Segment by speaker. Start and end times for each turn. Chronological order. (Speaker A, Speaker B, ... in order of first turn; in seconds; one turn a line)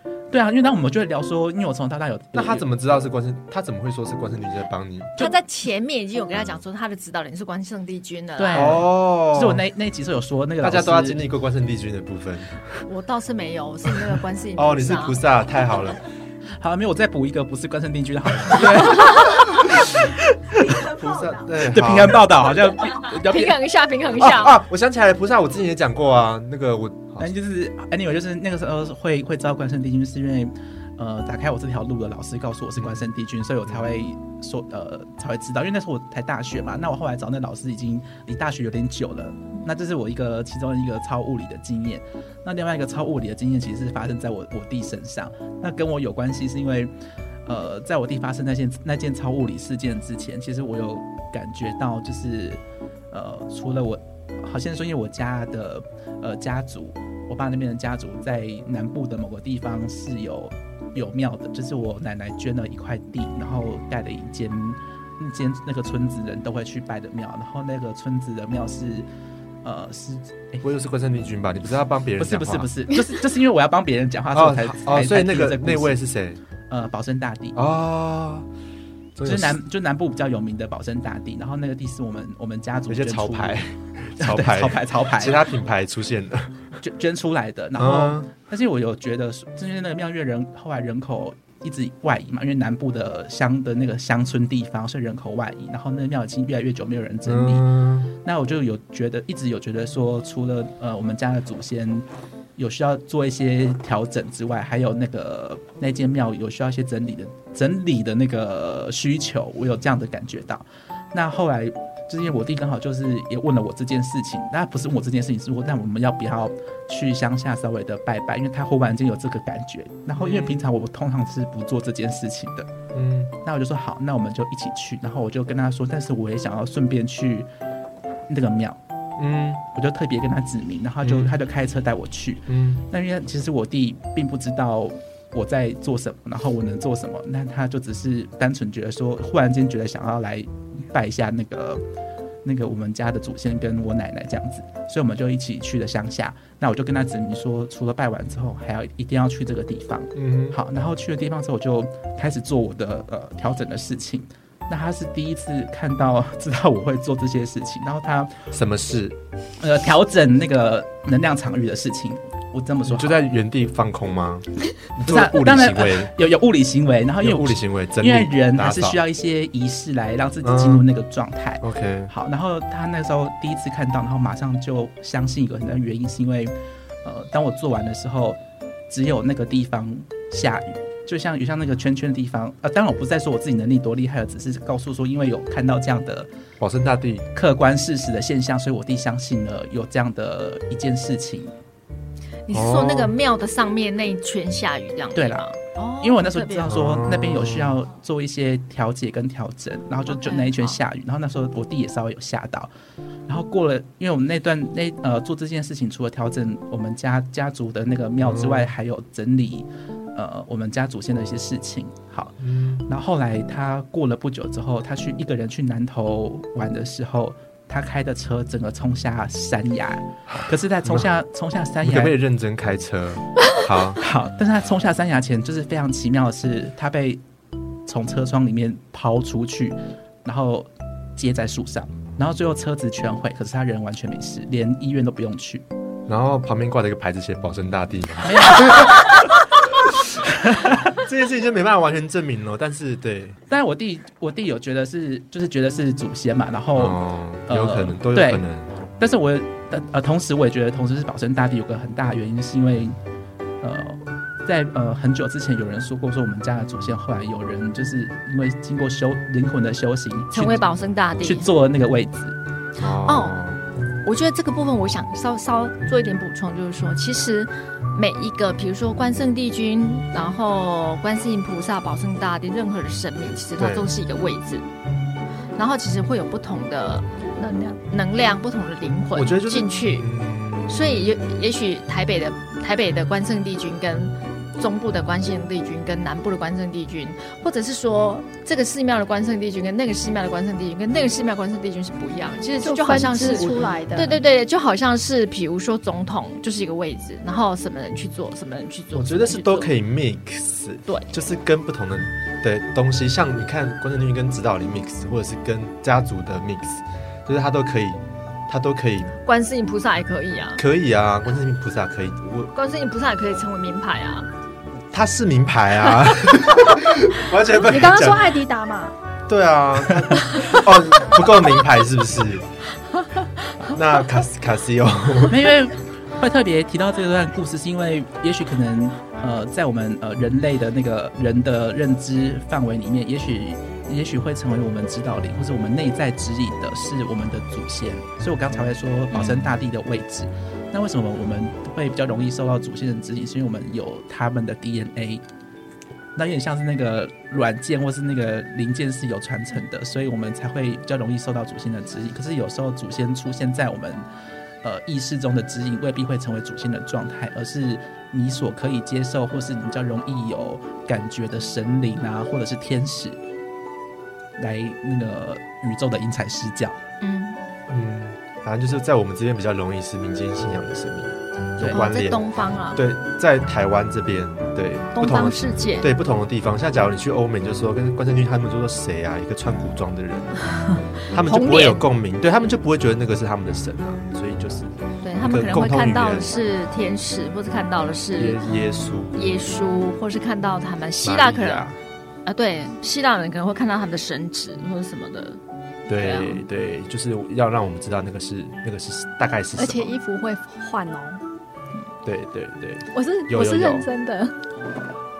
Speaker A: 0.3-2.6
Speaker B: 2.3-5.2
Speaker C: 5.2-8.8
Speaker A: 8.4-11.2
Speaker B: 8.5-9.6
Speaker B: 10.6-12.8
Speaker C: 12.8-15.2
Speaker B: 14.6-16.0
Speaker A: 16.6-20.9
Speaker B: 20.7-22.6
Speaker A: 21.6-23.6
Speaker C: 23.2-24.6
Speaker B: 24.2-27.3
Speaker A: 27.2-46.9
Speaker A: 47.5-52.6
Speaker A: 53.1-69.0
Speaker A: 69.6-70.6
Speaker B: 70.6-72.7
Speaker A: 72.2-76.0
Speaker B: 74.3-76.4
Speaker A: 76.7-77.5
Speaker B: 77.5-78.5
Speaker B: 79.1-79.5
Speaker A: 79.2-83.6
Speaker B: 82.9-86.6
Speaker A: 84.2-85.4
Speaker A: 86.8-102.0
Speaker B: 87.8-88.3
Speaker B: 97.2-98.1
Speaker A: 102.6-122.7
Speaker B: 120.2-120.6
Speaker B: 122.9-123.3
Speaker A: 123.4-127.5
Speaker A: 128.3-128.8
Speaker B: 129.2-129.6
Speaker A: 129.7-141.8
Speaker B: 131.0-131.3
Speaker B: 132.5-132.8
Speaker A: 142.4-158.5
Speaker B: 150.1-150.6
Speaker B: 158.5-159.2
Speaker A: 159.6-163.2
Speaker B: 162.8-166.1
Speaker A: 165.0-176.5
Speaker B: 167.2-169.0
Speaker B: 170.4-170.9
Speaker B: 171.6-172.1
Speaker A: 177.0-186.3
Speaker B: 186.6-187.3
Speaker A: 187.3-191.5
Speaker C: 192.5-196.8
Speaker B: 192.5-193.1
Speaker A: 195.1-195.4
Speaker A: 196.0-202.7
Speaker B: 196.7-197.8
Speaker C: 200.1-200.8
Speaker A: 203.3-212.3
Speaker B: 208.2-208.7
Speaker B: 212.4-212.8
Speaker A: 212.9-222.1
Speaker B: 221.8-224.0
Speaker A: 224.0-227.2
Speaker A: 227.8-235.6
Speaker B: 236.1-239.2
Speaker A: 238.2-239.3
Speaker A: 240.3-241.0
Speaker B: 240.7-243.4
Speaker A: 243.5-248.4
Speaker B: 246.7-248.7
Speaker A: 249.0-253.0
Speaker A: 253.6-262.4
Speaker C: 260.3-261.5
Speaker B: 262.8-263.6
Speaker C: 263.1-263.3
Speaker C: 264.0-274.6
Speaker B: 273.6-273.9
Speaker C: 275.6-277.1
Speaker D: 277.4-277.8
Speaker C: 277.8-280.1
Speaker B: 279.1-281.2
Speaker C: 280.7-299.7
Speaker D: 292.6-294.2
Speaker B: 298.9-309.1
Speaker C: 309.2-310.6
Speaker B: 310.6-312.5
Speaker C: 312.5-314.3
Speaker B: 314.9-318.3
Speaker D: 317.6-318.9
Speaker B: 319.3-322.5
Speaker B: 323.6-325.4
Speaker A: 325.3-345.2
Speaker A: 346.1-354.0
Speaker A: 354.6-363.2
Speaker A: 364.4-366.8
Speaker C: 367.0-367.4
Speaker B: 367.7-380.4
Speaker C: 371.6-372.8
Speaker C: 374.9-375.9
Speaker B: 381.1-386.4
Speaker C: 381.1-381.8
Speaker C: 385.0-388.4
Speaker B: 388.1-389.4
Speaker C: 389.1-391.7
Speaker B: 391.0-391.8
Speaker C: 392.2-395.4
Speaker B: 395.9-399.9
Speaker C: 396.0-396.4
Speaker D: 399.6-401.2
Speaker B: 402.0-403.9
Speaker D: 402.9-404.3